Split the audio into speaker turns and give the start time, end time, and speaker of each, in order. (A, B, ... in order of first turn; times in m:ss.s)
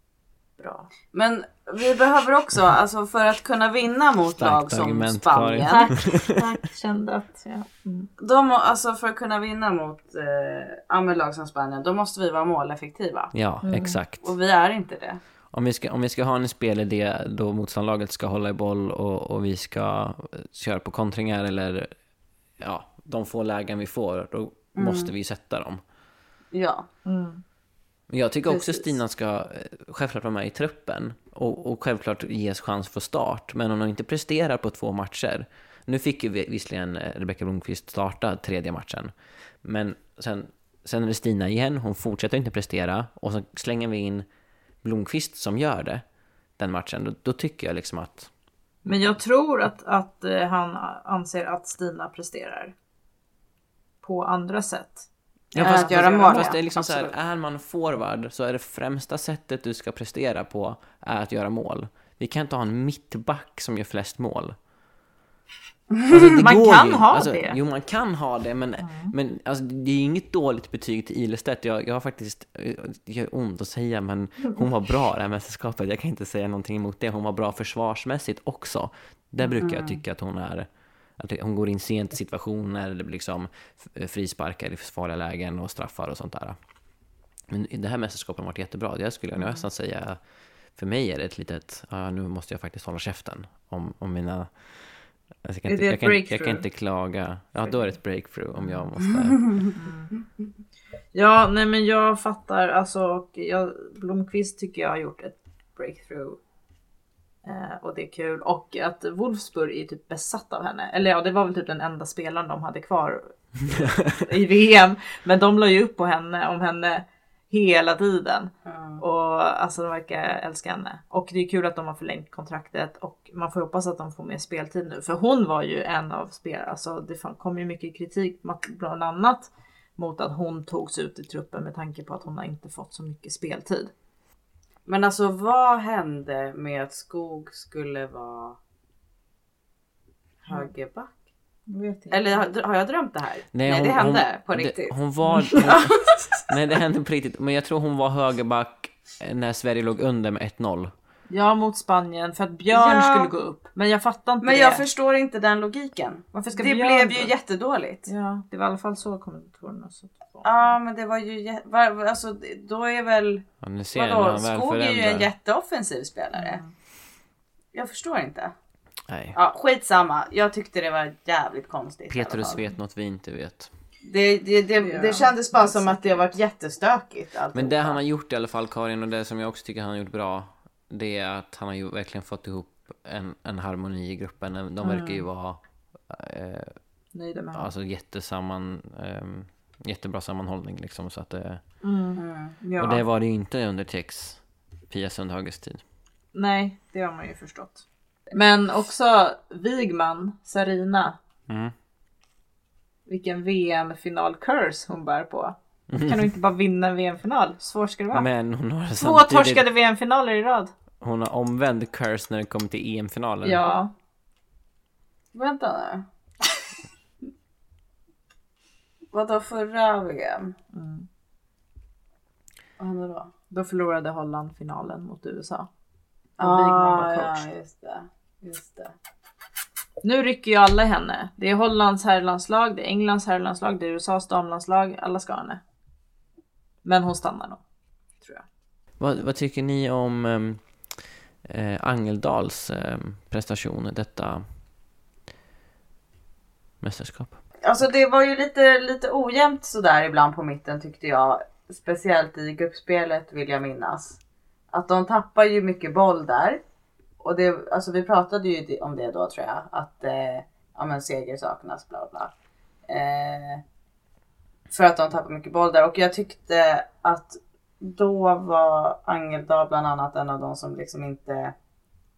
0:00.6-0:00.9 A
0:01.1-0:05.9 B
0:04.4-0:06.4 C
0:05.7-0:08.1 A
0:08.2-0:13.3 B
0:13.3-0:14.3 C
0:13.6-0:14.0 A
0:14.2-0:15.2 B
0:15.5-0:21.9 C
0:22.6-0:25.8 C
0:24.8-0:25.1 B
0:26.5-0:26.9 B
0:27.1-0:27.4 A
0:28.1-0:44.3 C
0:28.5-0:28.9 B
0:44.8-0:46.0 C
0:46.6-0:48.3 C
0:48.9-0:49.1 C
0:48.9-0:52.7 A
0:54.0-0:56.6 A
0:55.5-1:04.6 C
0:55.5-0:57.1 B
1:05.9-1:06.4 B
1:06.1-1:26.6 C
1:06.4-1:07.6 A
1:08.8-1:09.1 A
1:19.6-1:20.0 B
1:27.5-1:30.2 C
1:29.4-1:29.6 A
1:30.8-1:39.5 C
1:35.7-1:36.6 A
1:38.6-1:38.9 A
1:39.7-1:40.2 A
1:41.1-1:46.4 A
1:47.4-1:53.4 A
1:53.8-1:54.2 C
1:54.1-2:13.9 A
1:58.7-1:59.0 B
2:14.9-2:18.6 B
2:20.4-2:21.2 B
2:21.7-2:22.4 A
2:22.1-2:26.4 B
2:23.5-2:30.9 C
2:25.3-2:25.8 A
2:31.3-2:34.8 A
2:32.7-2:33.3 B
2:34.4-2:38.1 B
2:36.3-2:37.3 A
2:38.1-2:40.5 A
2:40.4-2:46.6 B
2:43.6-2:45.3 C
2:46.3-2:46.7 A
2:47.7-2:48.5 B
2:49.1-2:49.4 C
2:49.4-2:52.7 B
2:52.1-2:53.7 C
2:54.0-2:58.0 B
2:54.8-2:56.3 A
2:57.5-3:06.8 C
3:04.8-3:05.2 A
3:07.1-3:07.7 A
3:07.5-3:11.6 C
3:11.8-3:13.0 A
3:12.2-3:12.6 B
3:12.8-3:15.8 C
3:16.3-3:21.2 A
3:21.5-3:21.7 C
3:23.1-3:28.3 A
3:25.9-3:26.3 C
3:28.1-3:29.7 C
3:29.0-3:30.7 A
3:31.0-3:33.6 C
3:33.4-3:33.9 A
3:35.3-3:36.0 B
3:39.1-3:40.6 B
3:40.7-3:41.1 A
3:42.8-3:43.3 B
3:43.5-3:45.7 A
3:46.4-3:47.4 A
3:46.4-3:49.0 B
3:50.0-3:55.6 A
3:56.8-3:57.6 A
3:59.0-4:00.6 C
4:01.4-4:04.4 C
4:06.8-4:07.4 C
4:07.6-4:14.2 B
4:14.7-4:16.6 B
4:17.2-4:22.3 B
4:22.9-4:23.6 B
4:24.7-4:31.5 B